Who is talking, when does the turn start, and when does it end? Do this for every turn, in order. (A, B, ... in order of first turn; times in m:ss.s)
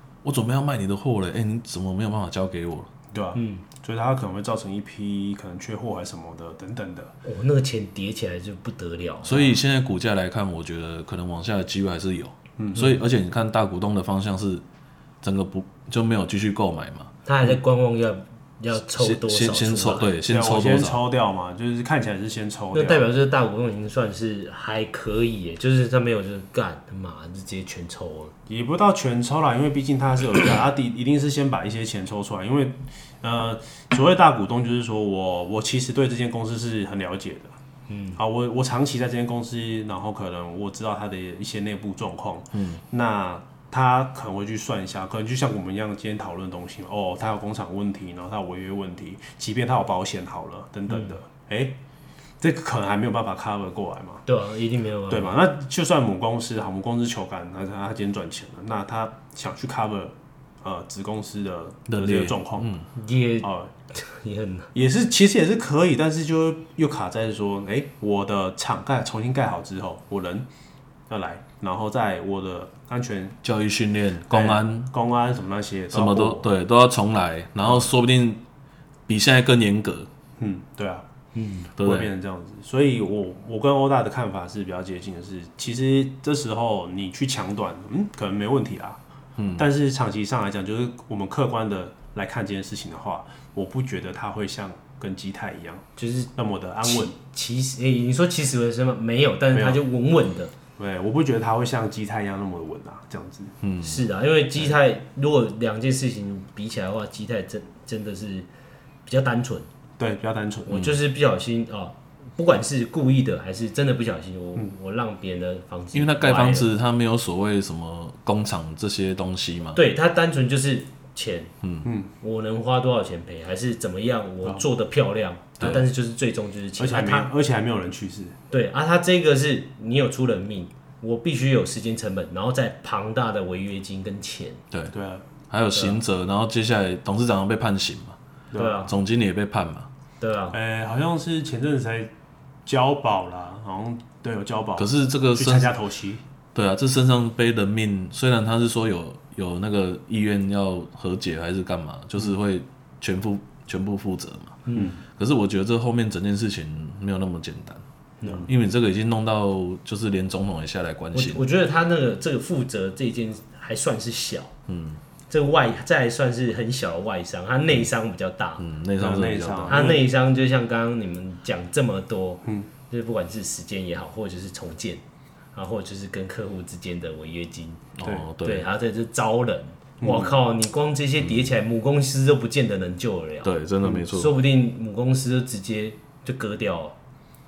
0:00.2-0:02.9 A
0:03.1-0:07.1 B
0:03.3-0:03.6 C
0:07.2-0:09.6 C
0:09.2-0:14.6 A
0:12.6-0:12.9 B
0:15.2-0:17.1 A
0:17.2-0:20.1 C
0:18.9-0:21.0 A
0:20.1-0:23.0 B
0:22.7-0:28.3 C
0:28.5-0:37.5 B
0:37.9-0:38.2 C
0:38.2-0:51.8 B
0:42.5-0:42.8 A
0:50.9-0:51.2 C
0:52.4-0:54.2 B
0:54.2-0:55.4 C
0:55.1-1:02.7 B
1:01.9-1:02.9 A
1:03.0-1:04.7 C
1:03.4-1:03.7 B
1:04.7-1:10.5 B
1:11.1-1:13.4 B
1:13.4-1:14.9 A
1:14.3-1:16.5 B
1:15.9-1:18.4 A
1:17.6-1:17.9 B
1:19.1-1:20.1 A
1:20.4-1:21.0 B
1:21.3-1:21.7 C
1:21.8-1:22.1 A
1:21.8-1:29.0 B
1:29.4-1:29.6 A
1:29.6-1:35.8 B
1:36.0-1:36.3 C
1:36.4-1:37.1 B
1:36.8-1:40.5 C
1:39.5-1:39.8 B
1:40.8-1:43.5 B
1:43.6-1:44.0 A
1:43.8-1:48.5 C
1:49.0-1:49.7 C
1:50.0-1:50.9 B
1:50.7-1:56.7 C
1:55.9-1:59.8 A
1:59.7-2:01.5 C
2:01.6-2:01.9 A
2:01.8-2:02.1 B
2:02.2-2:07.3 C
2:05.6-2:05.8 A
2:06.8-2:08.4 B
2:08.5-2:14.6 C
2:14.9-2:15.2 B
2:15.5-2:18.2 A
2:15.7-2:16.0 C
2:18.5-2:18.9 B
2:18.5-2:18.9 C
2:18.9-2:19.9 A
2:20.2-2:20.6 C
2:20.5-2:22.1 B
2:22.6-2:26.2 B
2:24.8-2:25.7 A
2:26.5-2:34.6 A
2:34.6-2:34.9 C
2:34.7-2:35.0 B
2:35.2-2:37.8 A
2:38.2-2:38.5 C
2:38.4-2:41.4 A
2:41.1-2:44.5 C
2:44.7-2:45.0 A
2:45.3-2:48.6 C
2:48.6-2:49.8 A
2:49.0-2:50.0 B
2:49.7-2:55.0 C
2:55.5-2:57.9 C
2:58.0-2:58.7 A
2:58.4-3:07.0 C
3:00.0-3:00.4 B
3:03.4-3:04.3 A